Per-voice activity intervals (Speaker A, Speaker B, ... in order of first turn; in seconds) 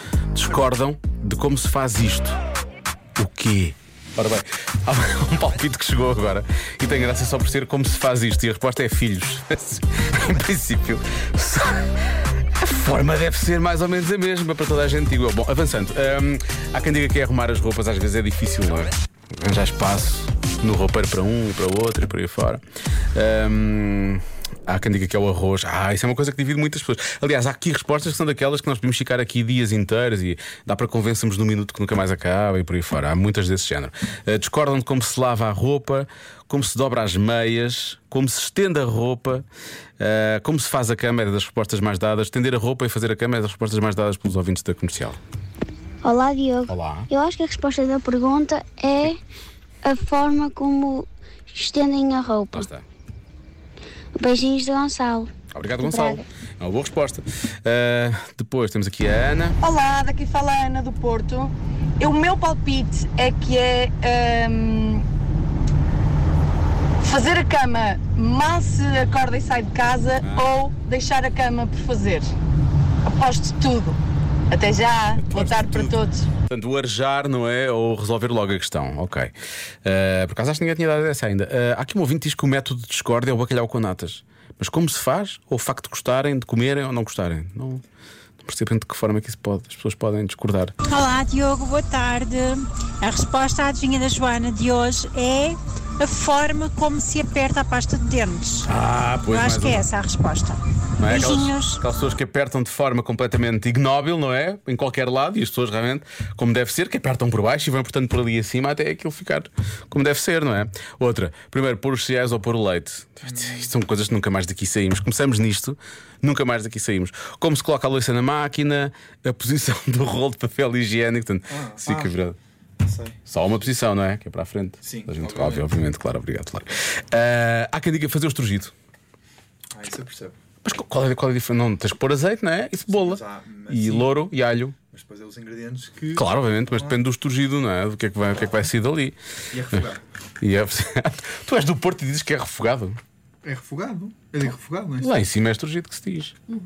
Speaker A: 0.3-2.4, 3.2-11.9, 12.6-22.6, 23.1-39.5, 40.0-45.2, 46.7-47.1, 52.5-52.9, 55.5-59.6, 75.2-76.0, 76.5-79.3, 79.8-87.8, 88.4-90.7, 98.7-99.9, 101.0-122.4, 123.3-128.7, 130.6-134.8, 136.2-139.2, 140.4-143.0, 145.0-146.3
Speaker B: 46.0-49.2, 49.8-52.7, 54.2-55.3, 55.8-56.2
Speaker C: 59.6-65.0, 67.0-72.3, 73.0-74.0, 74.5-76.3
Speaker D: 90.9-98.7, 99.2-101.8
Speaker E: 113.2-113.7, 121.5-122.1, 122.8-123.2, 124.8-125.8, 129.7-130.3, 132.9-134.2, 134.9-137.0, 139.5-140.0, 143.4-145.2